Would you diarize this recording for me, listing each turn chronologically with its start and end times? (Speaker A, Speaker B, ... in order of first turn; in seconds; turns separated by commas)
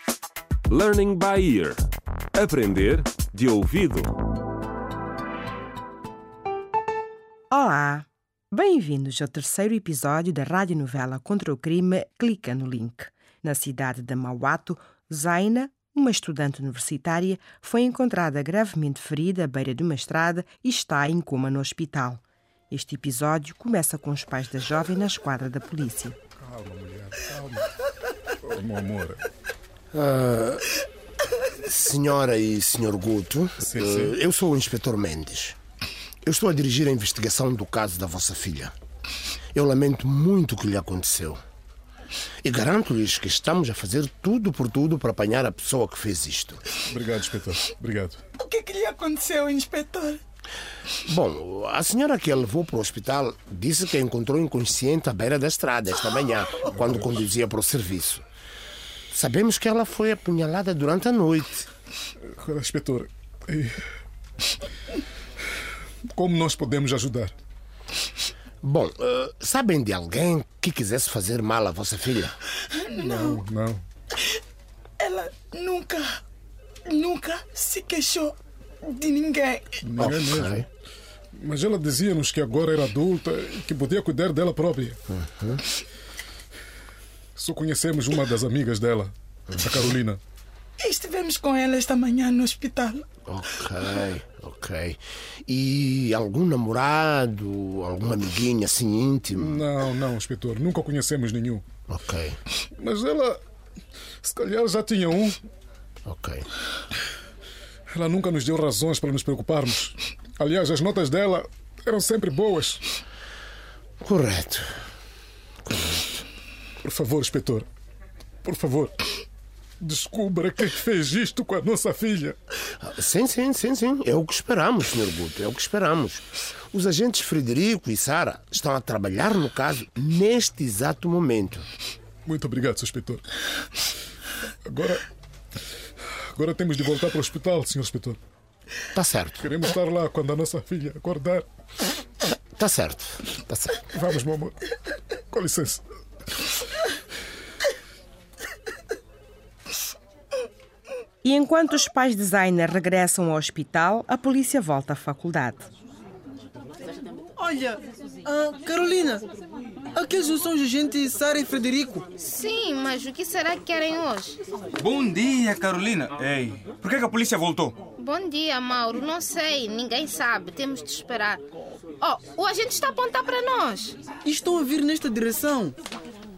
Speaker A: 0.7-4.2, Speaker B: 7.5-26.2, Speaker C: 26.4-27.7, Speaker C: 28.4-29.3, Speaker D: 29.9-30.7, Speaker D: 31.6-35.6, Speaker C: 33.6-34.1, Speaker D: 36.2-38.7, Speaker D: 39.5-41.4, Speaker D: 42.4-46.6, Speaker C: 46.9-48.2, Speaker E: 48.4-50.2, Speaker D: 51.0-58.2, Speaker D: 59.1-61.7, Speaker C: 62.3-63.8, Speaker C: 66.1-67.3, Speaker D: 68.6-72.4, Speaker E: 72.8-73.4, Speaker C: 72.9-73.8, Speaker E: 75.0-76.2, Speaker E: 76.9-79.7, Speaker C: 79.8-80.7, Speaker D: 80.0-80.7, Speaker C: 81.4-85.0, Speaker D: 85.2-85.6, Speaker C: 87.4-90.2, Speaker E: 90.8-93.0, Speaker D: 93.3-99.6, Speaker C: 99.4-101.7, Speaker D: 101.9-102.4, Speaker C: 102.8-103.4, Speaker C: 104.2-105.4, Speaker D: 106.1-106.5, Speaker C: 107.9-112.8, Speaker D: 114.0-114.7, Speaker D: 115.7-116.2, Speaker C: 116.8-117.7, Speaker C: 118.5-119.0, Speaker C: 119.8-122.4, Speaker D: 122.8-131.7, Speaker C: 132.3-133.2, Speaker C: 134.7-135.1, Speaker C: 136.3-138.2, Speaker D: 138.9-139.5, Speaker C: 139.4-141.4, Speaker D: 142.6-143.8, Speaker C: 143.9-144.6, Speaker C: 145.3-145.8, Speaker B: 151.2-155.7, Speaker F: 157.4-159.3, Speaker F: 159.9-162.1, Speaker G: 162.2-164.4, Speaker H: 164.8-167.8, Speaker G: 168.0-171.5, Speaker G: 172.0-174.0, Speaker F: 174.3-175.8